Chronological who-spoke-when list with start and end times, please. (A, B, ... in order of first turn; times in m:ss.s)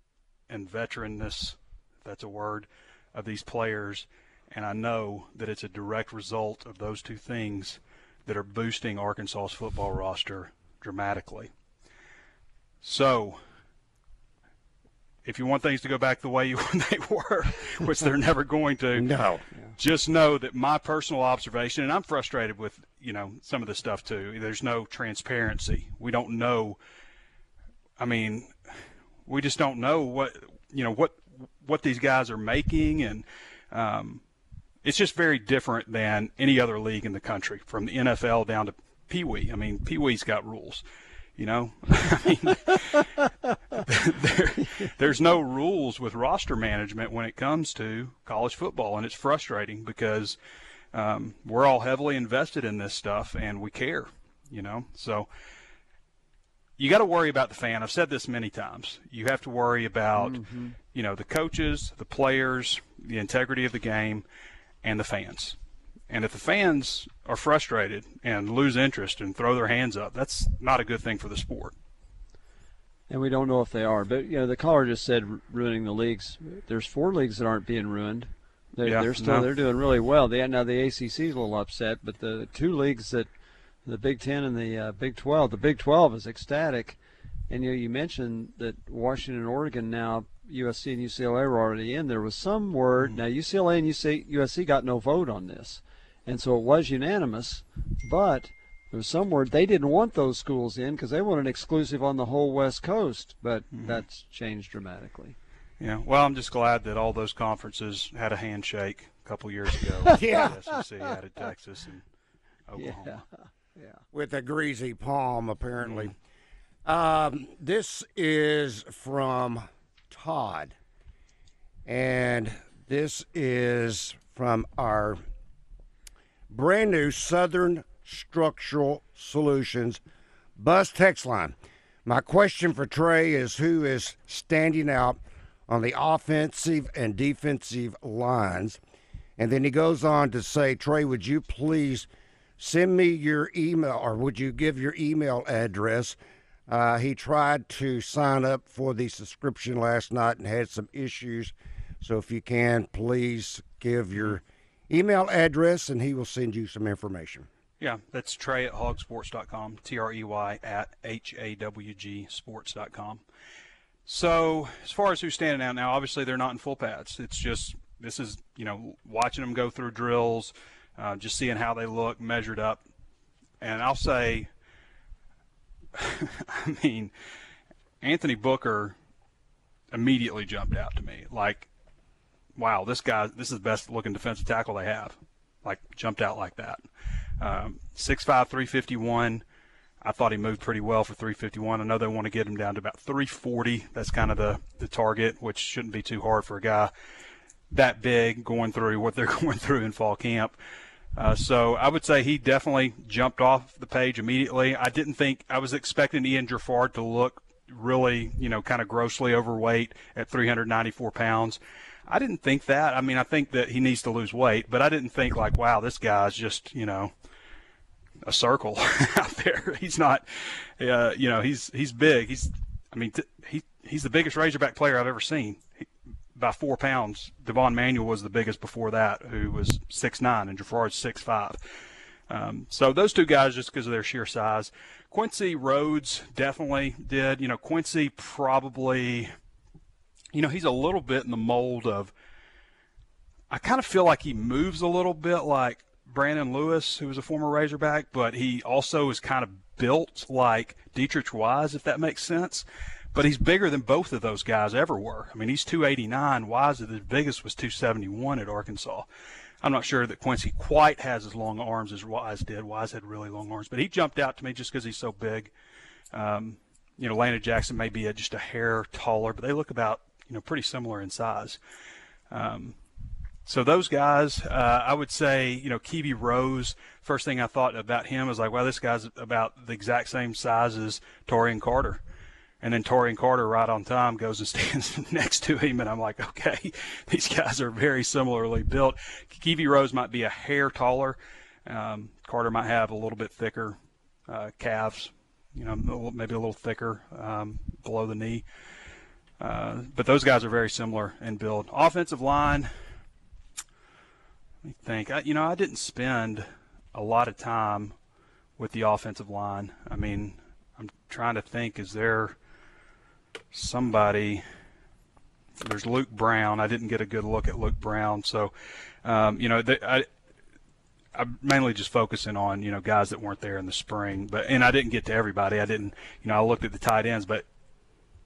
0:00.5-0:11.5 A
0:12.8-0:13.4 A
0:15.2-0:19.1 A
0:18.9-0:19.4 B
0:19.8-0:26.8 A
0:28.0-0:28.5 A
0:29.3-0:34.2 A
0:34.8-0:40.8 A
0:41.4-0:42.8 A
0:43.8-0:50.4 A
0:50.9-0:55.3 A
0:56.8-1:00.3 A
1:00.2-1:00.8 C
1:00.9-1:04.3 A
1:04.8-1:05.6 A
1:06.1-1:11.8 A
1:13.1-1:23.3 C
1:18.8-1:19.5 A
1:23.8-1:27.0 C
1:27.5-1:45.4 C
1:43.7-1:44.0 A
1:45.8-1:52.0 A
1:49.9-1:51.2 C
1:50.1-1:50.6 B
1:52.7-1:53.2 A
1:52.8-1:54.0 C
1:54.1-1:56.2 B
1:56.9-2:00.8 B
2:01.9-2:05.2 B
2:06.5-2:10.0 B
2:10.6-2:11.6 B
2:12.1-2:18.8 B
2:19.4-2:22.1 B
2:22.6-2:26.2 B
2:26.7-2:37.5 B
2:37.8-2:43.2 A
2:44.1-2:52.8 A
2:53.6-2:54.5 A
2:55.9-2:57.1 A
2:58.0-2:59.0 A
2:59.9-3:01.7 A
3:02.6-3:06.8 A
3:07.4-3:09.4 A
3:10.0-3:16.9 A
3:17.7-3:20.6 A
3:21.2-3:37.1 A
3:38.2-3:45.6 A
3:46.4-3:51.6 A
3:52.3-3:59.3 A
4:00.3-4:02.1 A
4:03.5-4:19.1 A
4:19.6-4:25.5 A
4:26.1-4:31.6 A
4:32.3-4:32.8 A
4:33.4-4:42.0 A
4:42.6-4:58.4 A
4:59.4-5:02.7 A
5:04.6-5:08.0 A
5:08.6-5:12.4 A
5:13.5-5:14.4 A
5:15.6-5:18.5 A
5:19.0-5:20.1 A
5:21.1-5:27.4 A